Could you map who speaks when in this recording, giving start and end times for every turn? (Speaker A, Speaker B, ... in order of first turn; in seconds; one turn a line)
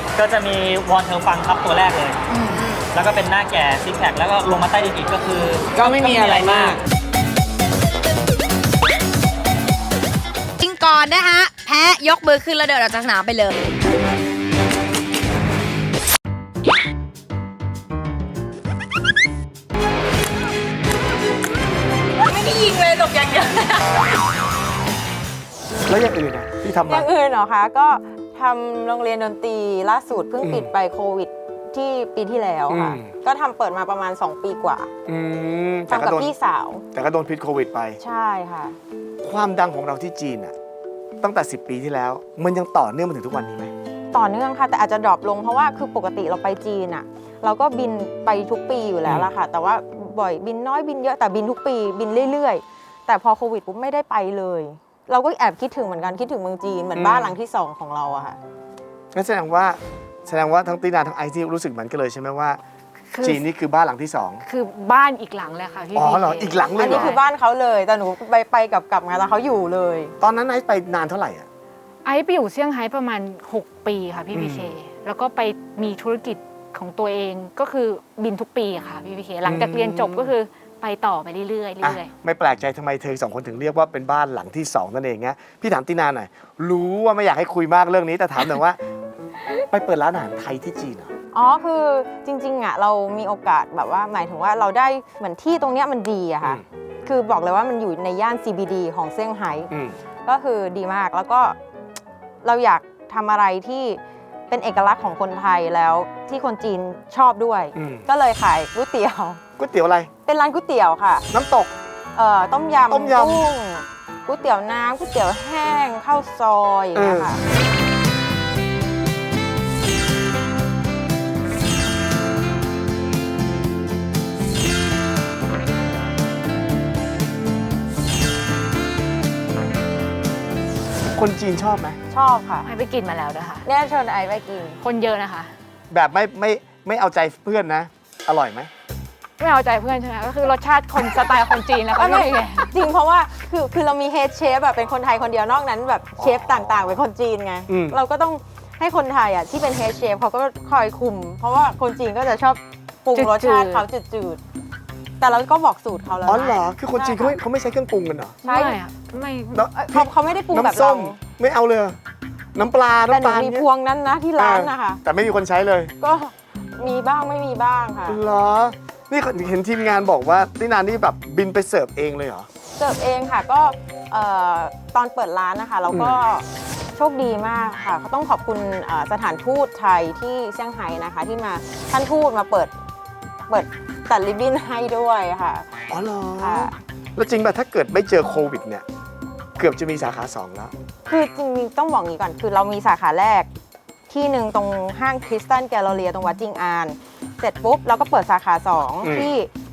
Speaker A: 0.2-2.2
Speaker B: 2.3-2.8
Speaker A: 2.9-6.8
Speaker B: 5.7-6.8
Speaker B: 10.6-13.5
Speaker B: 22.4-23.3
Speaker C: 25.9-27.1
Speaker D: 26.9-34.9
Speaker C: 30.4-30.7
Speaker C: 32.7-33.1
Speaker C: 35.1-36.3
Speaker D: 35.9-36.8
Speaker C: 36.9-38.0
Speaker D: 38.0-38.8
Speaker C: 39.2-40.5
Speaker C: 41.2-43.7
Speaker D: 44.1-58.4
Speaker C: 49.0-49.3
Speaker C: 57.0-57.4
Speaker C: 59.1-62.6
Speaker E: 63.1-63.4
Speaker C: 63.2-64.4
Speaker E: 64.4-67.2
Speaker C: 66.0-67.2
Speaker D: 66.7-70.2
Speaker C: 70.2-71.5
Speaker E: 72.0-82.1
Speaker C: 74.3-74.7
Speaker C: 79.5-80.3
Speaker C: 81.8-88.8
Speaker C: 89.7-91.1
Speaker D: 91.3-99.7
Speaker C: 99.7-100.0
Speaker D: 100.2-101.6
Speaker D: 102.4-109.4
Speaker C: 107.8-108.1
Speaker C: 109.6-110.1
Speaker D: 110.3-111.3
Speaker C: 111.3-111.7
Speaker D: 112.1-117.4
Speaker C: 112.9-113.5
Speaker C: 117.0-117.3
Speaker C: 131.1-132.0
Speaker D: 132.1-132.7
Speaker E: 132.6-133.7
Speaker D: 133.7-134.8
Speaker E: 134.8-135.5
Speaker C: 135.9-138.7
Speaker E: 139.4-142.8
Speaker D: 141.9-154.4
Speaker C: 146.2-147.0
Speaker C: 147.7-148.0
Speaker E: 153.2-153.8
Speaker D: 155.2-157.4
Speaker C: 156.2-158.4
Speaker D: 158.4-158.8
Speaker E: 158.5-159.6
Speaker C: 159.5-162.0
Speaker D: 159.7-161.2
Speaker C: 162.6-163.7
Speaker D: 163.1-165.0
Speaker C: 164.4-165.9
Speaker D: 166.0-168.2
Speaker C: 168.1-172.5
Speaker D: 172.8-182.7
Speaker C: 175.9-176.2
Speaker D: 183.5-185.7
Speaker C: 185.9-188.8
Speaker D: 186.4-186.7
Speaker C: 189.6-190.7
Speaker D: 191.1-193.5
Speaker D: 194.1-199.5
Speaker C: 199.0-199.3